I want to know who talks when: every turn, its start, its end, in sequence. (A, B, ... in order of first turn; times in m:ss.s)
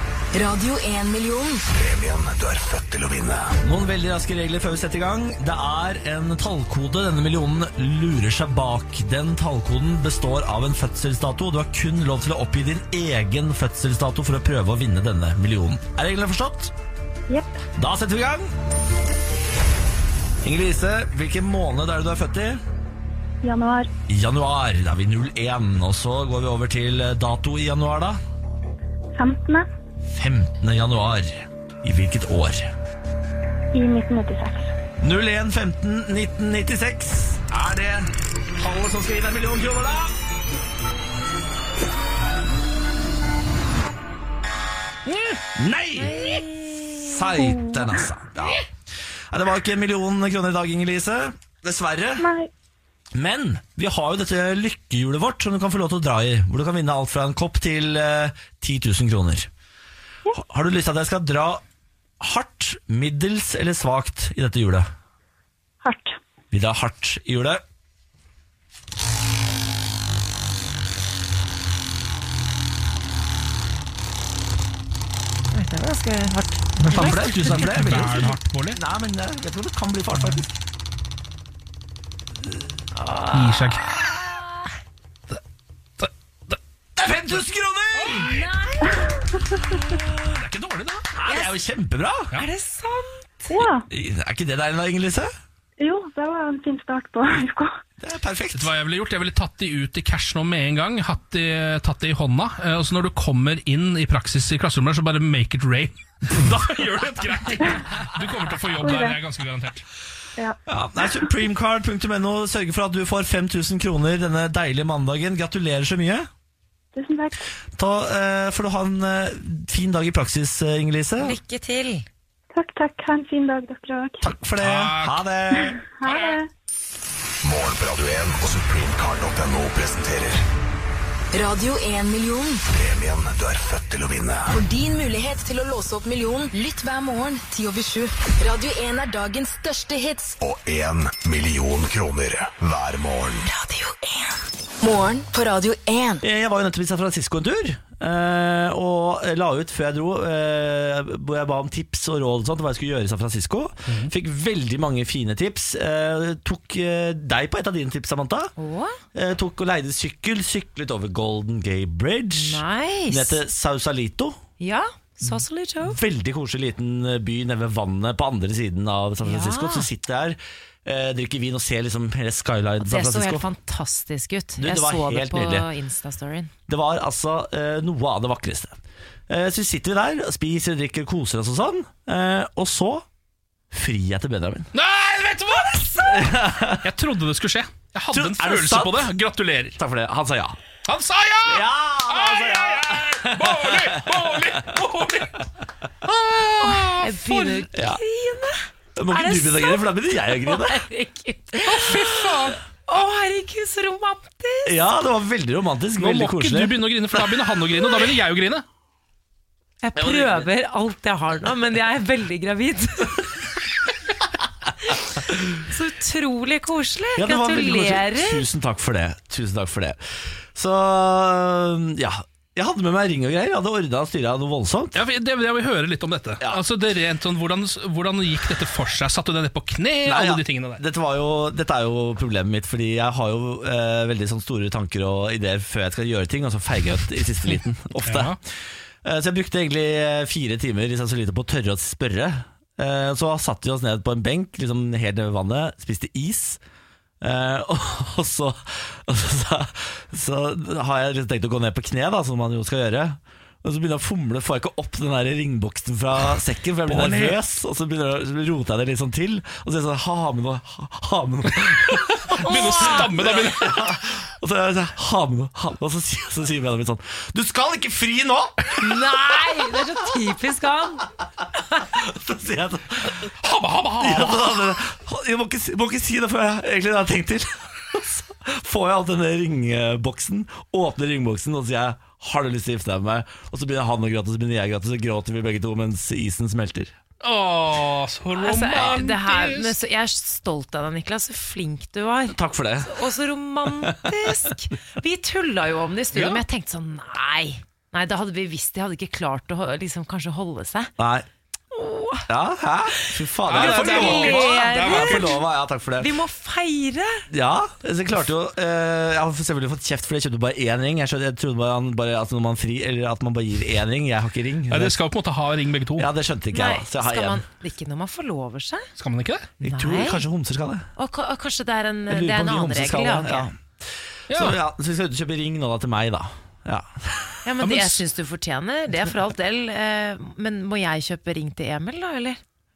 0:00.3-0:01.6 A
0:01.7-0:03.5 B
0:03.6-0:16.7 C
0:17.3-0:17.6 D
0:17.8-0:18.5 C
0:20.4-0:22.6 C
0:23.4-0:23.9 D
0:24.1-0:28.2 C
0:29.1-0:29.7 D
0:30.0-0:32.7 C
0:33.7-0:34.7 D
0:35.0-0:40.2 C
0:45.1-0:48.7 C
0:46.0-0:47.1 E
0:47.4-0:47.9 D
0:49.3-0:52.2 C
0:52.2-0:52.5 D
0:53.1-0:59.5 C
1:00.3-1:01.6 C
1:02.2-1:04.9 C
1:05.8-1:06.2 D
1:06.5-1:07.6 C
1:15.5-1:17.7 E
1:16.8-1:20.5 C
1:16.8-1:18.8 F
1:23.0-1:23.7 E
1:23.3-1:23.8 F
1:27.0-1:28.4 C
1:28.2-1:29.1 E
1:28.9-1:29.6 D
1:30.2-1:31.1 F
1:31.1-1:32.3 C
1:32.3-1:33.6 E
1:33.5-1:33.9 D
1:33.9-1:35.3 C
1:35.8-1:37.8 D
1:38.0-1:38.7 C
1:38.5-1:49.8 F
1:48.8-1:49.2 D
1:50.4-1:51.3 D
1:50.7-1:56.3 C
1:56.9-1:57.4 D
1:57.8-2:01.4 C
2:01.2-2:02.0 E
2:02.5-2:04.2 D
2:04.2-2:05.8 C
2:04.6-2:05.2 F
2:05.5-2:06.5 D
2:07.4-2:10.4 B
2:11.3-2:12.6 A
2:12.7-2:14.5 B
2:14.5-2:20.4 A
2:20.4-2:23.5 B
2:23.5-2:26.2 A
2:26.2-2:38.5 C
2:38.6-2:39.0 E
2:39.1-2:44.4 C
2:42.3-2:43.4 E
2:44.6-2:46.0 E
2:45.8-2:53.4 C
2:49.2-2:49.9 E
2:52.8-2:56.5 E
2:54.6-2:55.7 C
2:56.7-3:03.0 C
3:03.7-3:04.7 C
3:04.7-3:09.8 F
3:06.0-3:06.9 C
3:08.1-3:09.1 C
3:09.8-3:10.6 C
3:10.8-3:15.4 F
3:11.4-3:14.7 C
3:16.0-3:17.6 F
3:16.6-3:22.3 E
3:17.7-3:18.0 C
3:19.0-3:20.8 C
3:21.6-3:22.6 F
3:22.9-3:24.7 E
3:24.6-3:26.8 C
3:26.0-3:28.6 F
3:29.8-3:33.3 E
3:30.0-3:30.5 C
3:35.6-3:38.4 E
3:37.2-3:40.0 C
3:40.5-3:45.0 C
3:44.9-3:50.8 F
3:50.0-4:06.6 C
3:58.0-3:58.4 F
4:07.2-4:29.7 C
4:16.9-4:17.4 F
4:22.2-4:23.9 F
4:28.8-4:31.0 E
4:31.8-4:33.2 C
4:33.4-4:34.7 F
4:34.0-4:46.9 C
4:47.2-4:49.7 F
4:48.4-5:00.9 E
4:48.8-4:49.0 C
4:52.3-4:53.1 C
4:53.7-4:54.3 C
4:56.1-4:56.4 F
5:01.0-5:01.3 C
5:01.7-5:02.3 E
5:02.3-5:06.1 C
5:03.0-5:05.4 E
5:03.5-5:05.4 F
5:06.0-5:07.2 E
5:07.3-5:15.0 C
5:14.7-5:16.1 F
5:16.0-5:17.4 C
5:16.5-5:18.9 E
5:19.0-5:19.5 F
5:19.6-5:20.9 C
5:19.6-5:20.2 E
5:21.0-5:23.5 E
5:22.1-5:27.4 C
5:24.3-5:24.6 F
5:27.4-5:32.4 E
5:27.6-5:28.0 F